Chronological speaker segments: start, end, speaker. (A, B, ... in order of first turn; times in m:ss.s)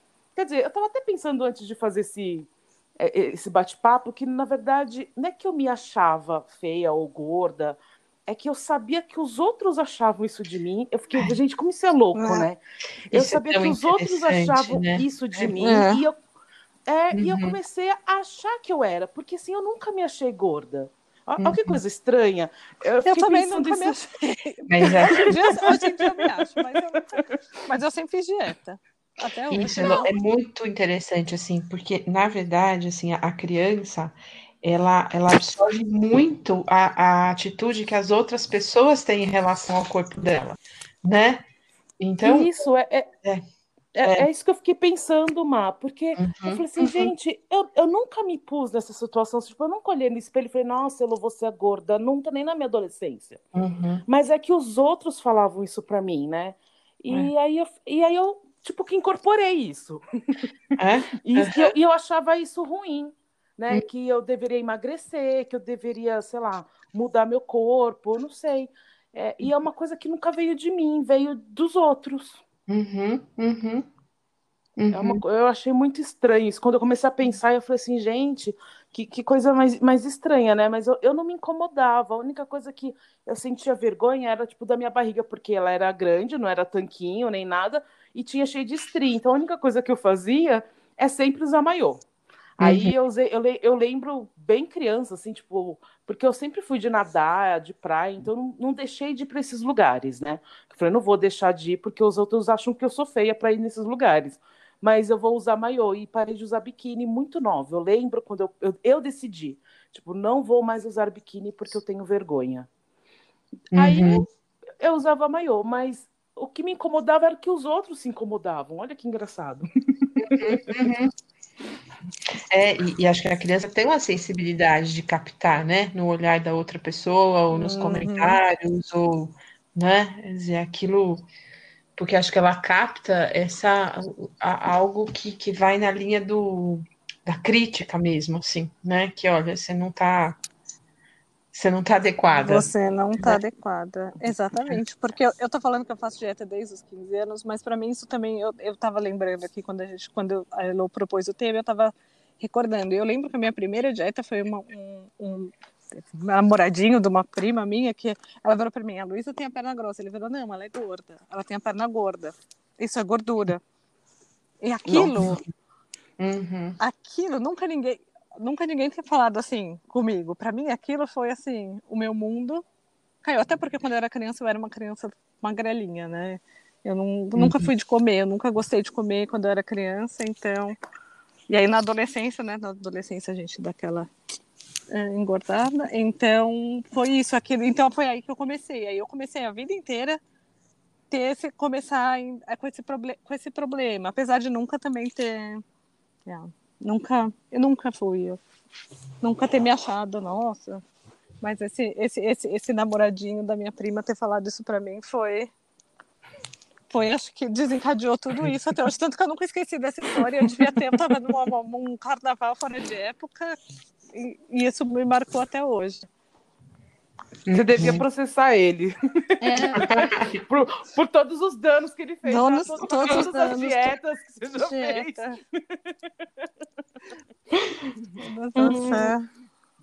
0:00.4-0:12.6 A
0:12.2-0:12.5 B
0:13.1-0:16.2 A
0:13.1-0:15.5 C
0:15.6-0:16.0 B
0:16.9-0:24.0 A
0:17.1-0:17.6 C
0:21.4-0:21.8 C
0:23.0-0:30.1 B
0:24.7-0:25.3 C
0:25.3-0:25.8 A
0:29.5-0:41.5 C
0:42.0-0:42.5 C
0:42.2-0:43.1 A
0:44.0-0:53.4 A
0:44.0-0:44.3 C
0:46.2-0:47.1 C
0:53.5-0:54.0 C
0:54.1-1:00.5 A
1:00.8-1:01.7 C
1:01.2-1:12.4 A
1:12.7-1:13.9 C
1:14.8-1:15.2 C
1:14.9-1:32.0 A
1:32.6-1:52.7 A
1:32.6-1:33.0 C
1:53.7-1:54.2 C
1:53.7-1:54.3 A
1:54.8-2:00.6 A
2:00.2-2:01.1 C
2:02.5-2:11.2 C
2:07.5-2:08.4 B
2:12.0-2:20.4 C
2:21.5-2:23.4 C
2:22.3-2:43.6 B
2:44.6-2:45.4 B
2:44.9-2:45.4 C
2:46.2-2:46.8 C
2:46.8-2:52.6 B
2:53.2-3:00.8 B
2:57.4-2:57.7 C
3:01.5-3:04.1 B
3:04.9-3:10.2 B
3:11.1-3:15.6 B
3:16.3-3:18.4 B
3:19.2-3:20.8 B
3:21.4-3:25.5 B
3:26.9-3:33.6 B
3:34.1-3:36.1 B
3:37.5-3:38.0 C
3:37.5-3:39.8 A
3:39.4-3:39.9 B
3:39.8-3:40.5 C
3:40.5-3:46.0 A
3:42.2-3:43.9 B
3:44.6-3:45.4 B
3:48.2-3:49.3 B
3:48.6-3:49.1 A